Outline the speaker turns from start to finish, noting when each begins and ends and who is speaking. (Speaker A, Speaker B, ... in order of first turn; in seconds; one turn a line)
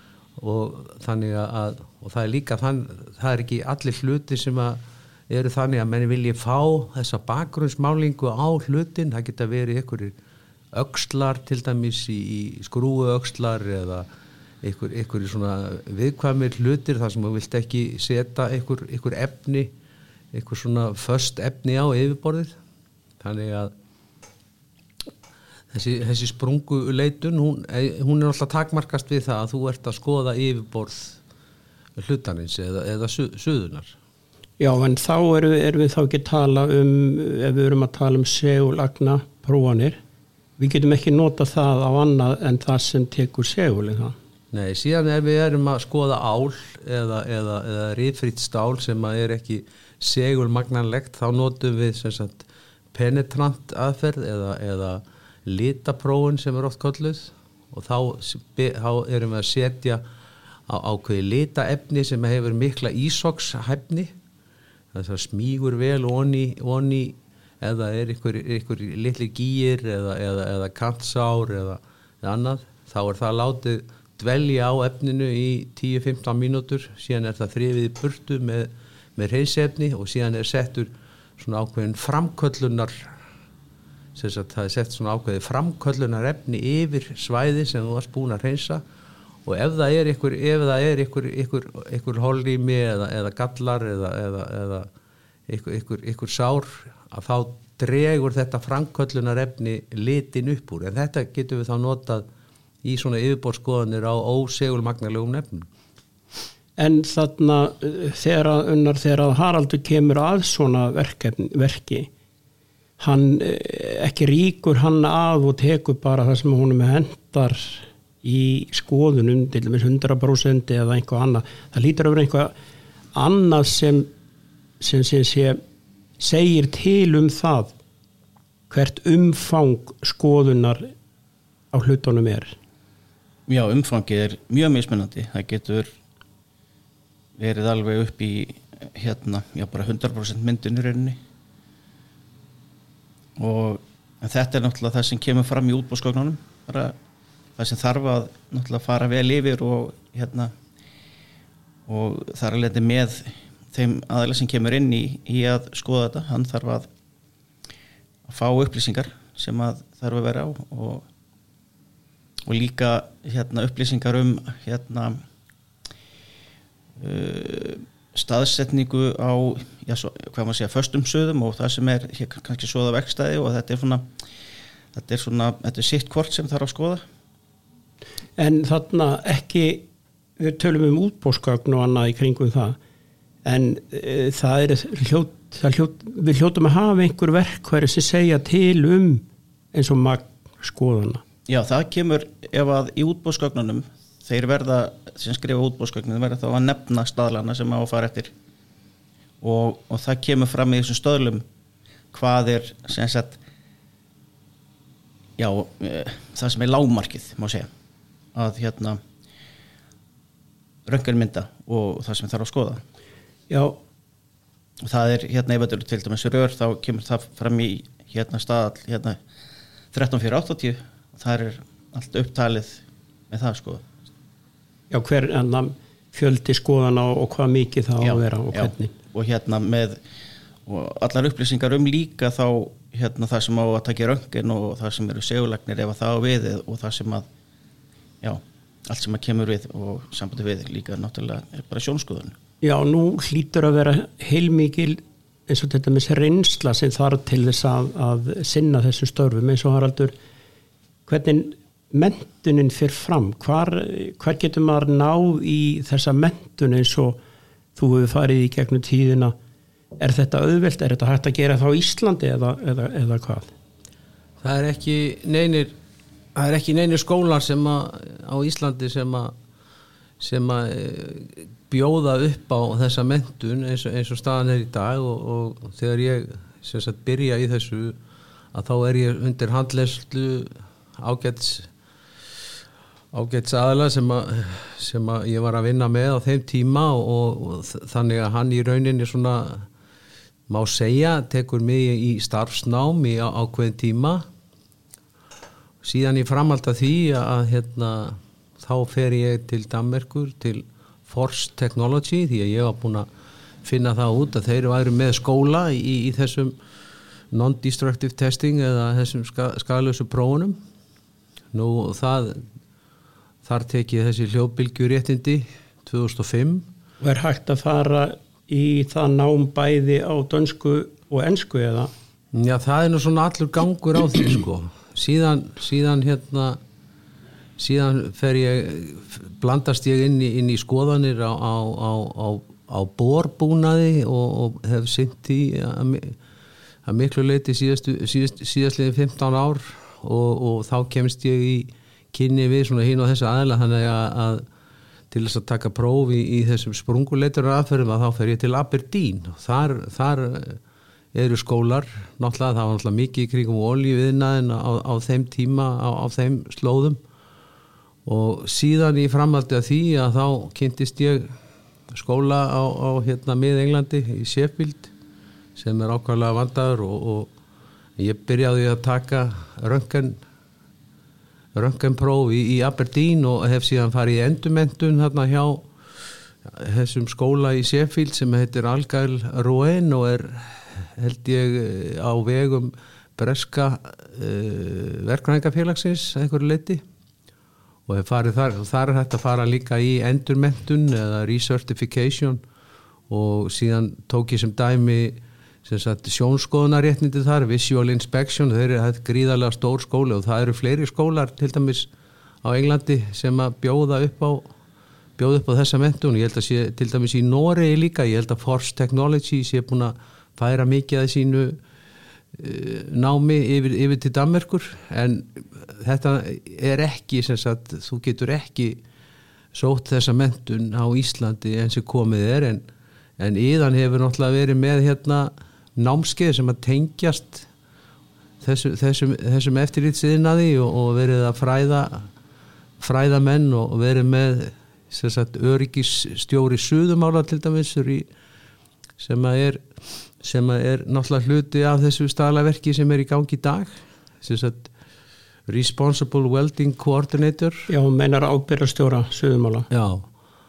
Speaker A: 0.4-10.1
Speaker A: 10.7-14.1
Speaker A: 14.6-19.7
Speaker A: 20.3-22.5
Speaker A: 23.2-23.7
Speaker A: 25.7-31.2
Speaker A: 32.0-33.9
Speaker B: 34.6-40.0
Speaker B: 40.6-44.1
Speaker A: 44.5-60.0
Speaker A: 60.7-64.1
Speaker A: 64.9-83.1
Speaker A: 84.2-88.8
Speaker A: 89.5-94.9
Speaker A: 95.5-102.2
Speaker A: 102.8-105.7
Speaker B: 106.8-112.1
Speaker B: 113.0-122.5
Speaker B: 123.1-124.1
Speaker B: 124.8-125.6
Speaker B: 126.2-127.7
Speaker B: 128.7-130.9
Speaker B: 131.7-132.5
Speaker C: 133.5-135.9
Speaker C: 137.4-141.2
Speaker C: 143.4-146.9
Speaker C: 147.6-150.5
Speaker C: 151.9-156.9
Speaker C: 158.2-161.0
Speaker C: 162.4-165.2
Speaker C: 167.0-174.1
Speaker C: 174.9-177.0
Speaker B: 178.4-179.8
Speaker B: 180.4-182.8
Speaker B: 183.4-191.2
Speaker C: 191.5-198.3
Speaker C: 199.4-201.4
Speaker C: 202.1-203.4
Speaker C: 205.4-207.7
Speaker C: 208.3-209.0
Speaker C: 210.8-212.8
Speaker B: 213.5-213.8
Speaker C: 214.8-219.2
Speaker C: 219.9-223.9
Speaker B: 224.9-228.9
Speaker C: 228.0-230.0
Speaker C: 230.7-237.2
Speaker C: 238.2-242.4
Speaker B: 242.6-250.1
Speaker B: 251.1-257.2
Speaker B: 257.8-259.3
Speaker B: 260.0-263.5
Speaker A: 264.4-265.7
Speaker A: 266.3-269.3
Speaker A: 270.2-278.0
Speaker A: 278.5-281.7
Speaker A: 283.1-289.7
Speaker A: 290.5-294.2
Speaker A: 295.8-303.1
Speaker A: 303.6-306.5
Speaker A: 307.3-310.6
Speaker A: 311.5-312.4
Speaker A: 313.4-316.6
Speaker B: 317.0-321.9
Speaker A: 322.3-326.6
Speaker A: 327.6-336.2
Speaker A: 336.8-344.4
Speaker A: 345.1-350.6
Speaker A: 351.1-357.0
Speaker A: 358.0-361.3
Speaker A: 361.9-364.9
Speaker A: 365.6-367.3
Speaker A: 368.0-370.2
Speaker A: 371.5-375.7
Speaker A: 376.4-386.8
Speaker A: 387.9-392.4
Speaker A: 393.1-401.9
Speaker A: 402.4-404.5
Speaker A: 405.2-411.6
Speaker A: 412.3-418.8
Speaker A: 419.5-422.6
Speaker A: 423.2-427.5
Speaker A: 428.4-432.1
Speaker A: 432.8-438.1
Speaker A: 439.0-439.6
Speaker A: 440.2-444.7
Speaker A: 445.5-447.7
Speaker B: 447.7-449.7
Speaker A: 449.7-450.1